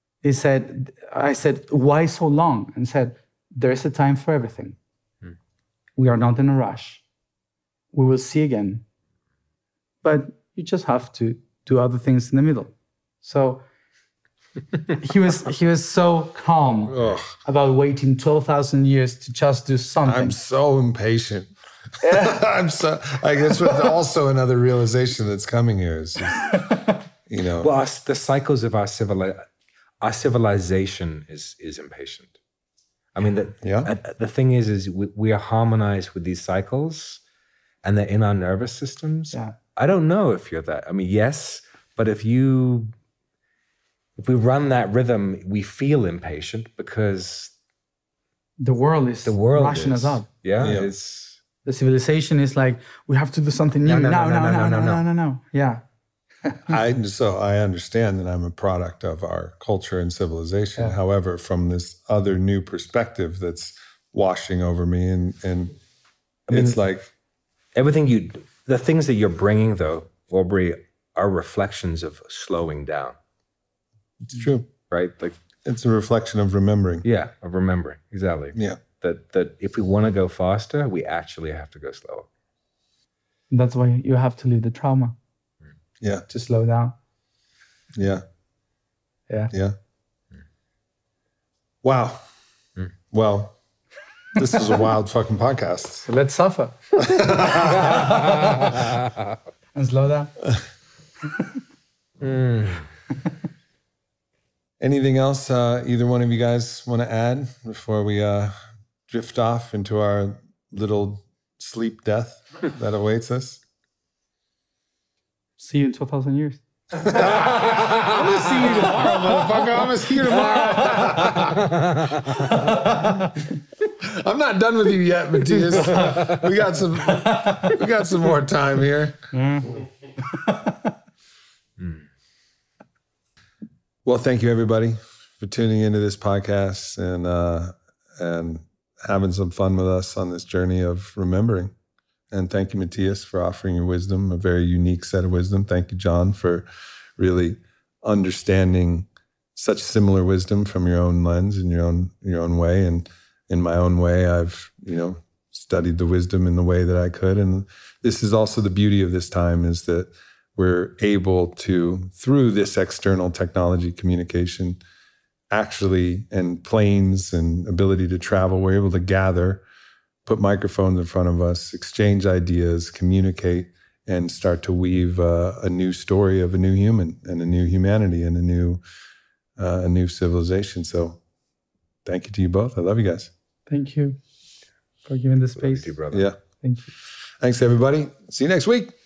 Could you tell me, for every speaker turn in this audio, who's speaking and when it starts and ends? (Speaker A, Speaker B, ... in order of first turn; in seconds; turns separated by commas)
Speaker A: 0.2-4.8, Speaker A: 6.0-7.0, Speaker A: 7.9-8.8, Speaker A: 10.0-13.6, Speaker A: 14.9-20.4, Speaker B: 16.9-17.2, Speaker B: 20.0-21.5, Speaker A: 22.0-22.4, Speaker B: 22.0-26.6, Speaker A: 26.4-26.9, Speaker B: 27.3-27.7, Speaker C: 27.6-29.4, Speaker C: 30.0-32.4, Speaker C: 33.1-37.2, Speaker B: 33.6-33.9, Speaker C: 37.8-42.9, Speaker C: 44.2-47.5, Speaker A: 48.6-50.3, Speaker C: 49.2-51.4, Speaker B: 50.6-50.9, Speaker A: 51.6-55.8, Speaker C: 53.9-55.0, Speaker A: 56.4-56.8, Speaker B: 56.7-65.8, Speaker C: 66.5-66.8, Speaker B: 66.5-67.1, Speaker C: 67.7-73.2, Speaker B: 74.2-74.7, Speaker C: 74.9-75.4, Speaker B: 75.6-77.0, Speaker C: 77.0-82.3, Speaker B: 78.5-78.8, Speaker A: 83.5-85.2, Speaker B: 86.0-86.2, Speaker A: 86.3-87.0, Speaker B: 87.9-88.2, Speaker B: 91.8-92.2, Speaker B: 93.1-93.6, Speaker B: 94.3-96.1, Speaker A: 96.0-98.7, Speaker B: 97.0-98.1, Speaker C: 98.0-98.9, Speaker A: 99.7-100.4, Speaker C: 102.2-102.9, Speaker B: 104.8-108.5, Speaker B: 109.1-113.6, Speaker A: 115.6-116.6, Speaker B: 117.0-123.3, Speaker A: 118.2-119.3, Speaker A: 120.5-121.4, Speaker C: 121.4-122.1, Speaker B: 124.0-129.3, Speaker A: 125.5-126.3, Speaker A: 127.1-127.7, Speaker A: 129.3-130.9, Speaker B: 134.0-141.7, Speaker B: 142.3-146.7, Speaker B: 147.2-164.8, Speaker B: 165.5-169.6, Speaker B: 170.2-178.8, Speaker B: 179.6-181.2, Speaker B: 182.0-183.3, Speaker A: 183.7-184.2, Speaker A: 185.1-185.9, Speaker C: 185.6-186.2, Speaker B: 186.1-186.4, Speaker A: 186.6-186.9, Speaker B: 187.4-188.9